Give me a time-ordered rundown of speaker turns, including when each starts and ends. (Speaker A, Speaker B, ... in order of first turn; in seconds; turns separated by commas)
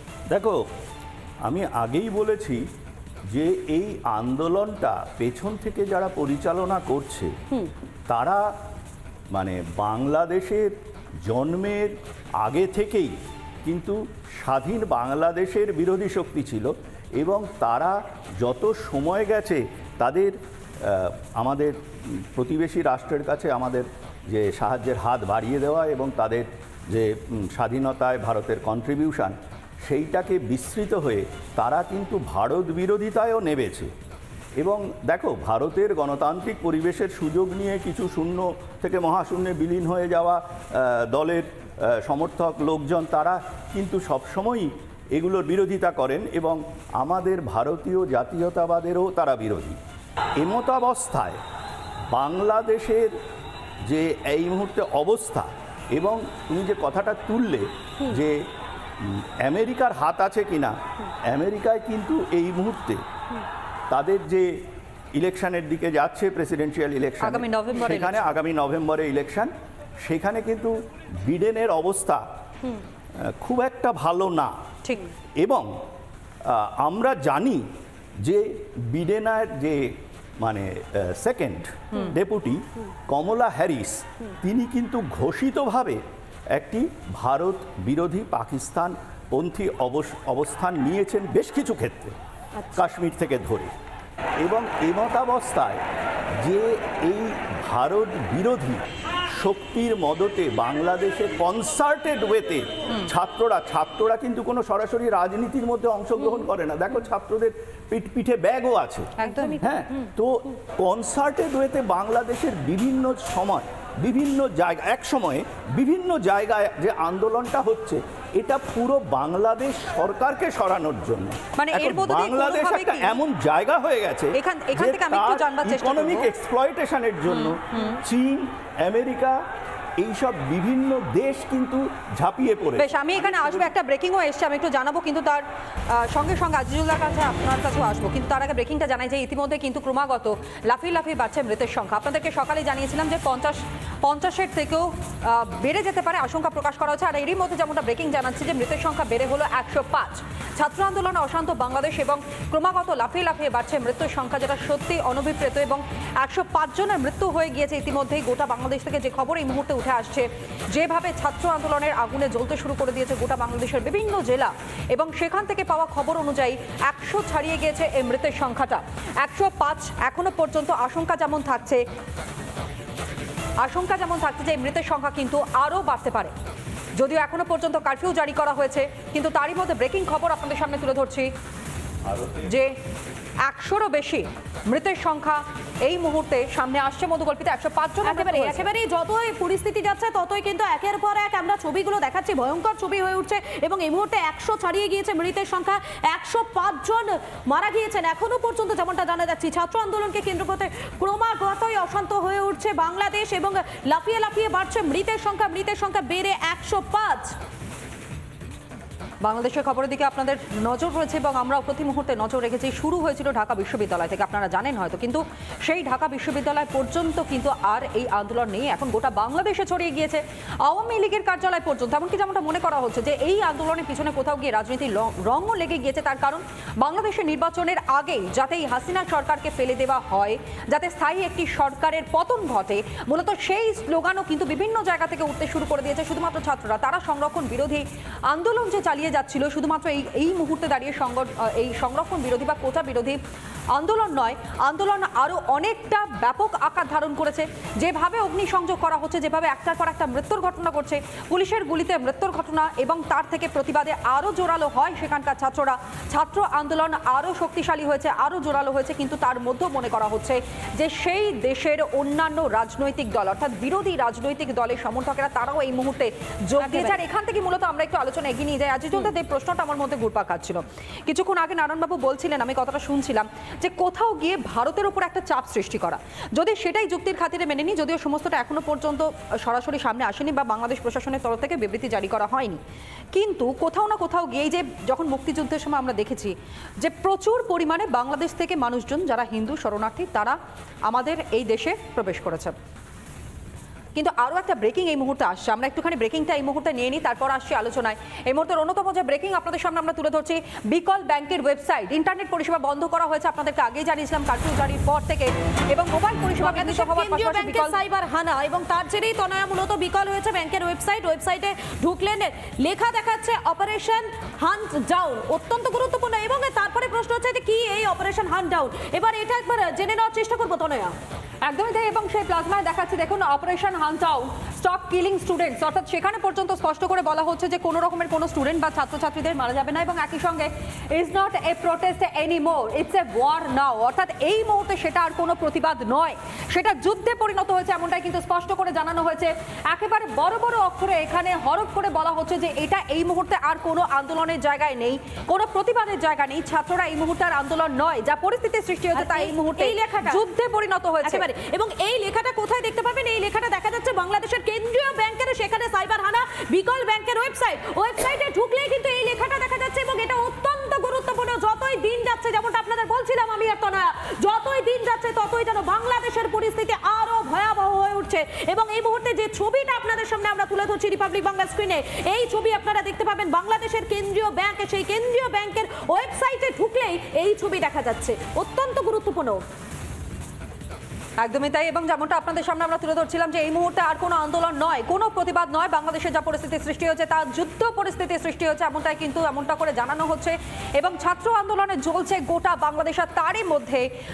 Speaker A: 0.3-0.6, Speaker A: 1.4-2.6, Speaker A: 3.3-7.3, Speaker A: 8.1-8.4, Speaker A: 9.3-10.7, Speaker A: 11.2-33.9, Speaker A: 34.6-49.8, Speaker A: 50.4-51.4, Speaker A: 52.1-53.1, Speaker A: 53.8-58.4, Speaker A: 59.0-60.7, Speaker A: 61.3-63.0, Speaker A: 63.9-64.5, Speaker A: 65.1-69.5, Speaker B: 67.2-68.3, Speaker A: 70.0-72.2, Speaker A: 73.4-74.5, Speaker A: 75.4-75.7, Speaker A: 76.5-77.6, Speaker A: 78.2-79.9, Speaker A: 80.4-86.0, Speaker A: 86.5-92.1, Speaker C: 92.5-92.9, Speaker A: 92.7-93.7, Speaker A: 94.4-95.8, Speaker A: 96.4-129.4, Speaker B: 109.2-109.6, Speaker C: 109.2-110.1, Speaker B: 121.5-123.2, Speaker B: 124.3-126.3, Speaker B: 127.3-128.0, Speaker A: 130.0-133.7, Speaker B: 132.8-171.8, Speaker B: 173.6-176.3, Speaker B: 176.9-181.3, Speaker A: 182.1-182.5, Speaker B: 182.4-182.7, Speaker B: 183.4-188.7, Speaker C: 188.0-207.3, Speaker B: 209.2-243.2, Speaker B: 243.7-282.6, Speaker C: 266.6-267.0, Speaker B: 283.1-292.5, Speaker B: 293.9-307.8, Speaker C: 306.4-320.9, Speaker B: 321.4-351.3, Speaker C: 348.9-350.2, Speaker C: 351.0-379.4, Speaker B: 381.2-393.9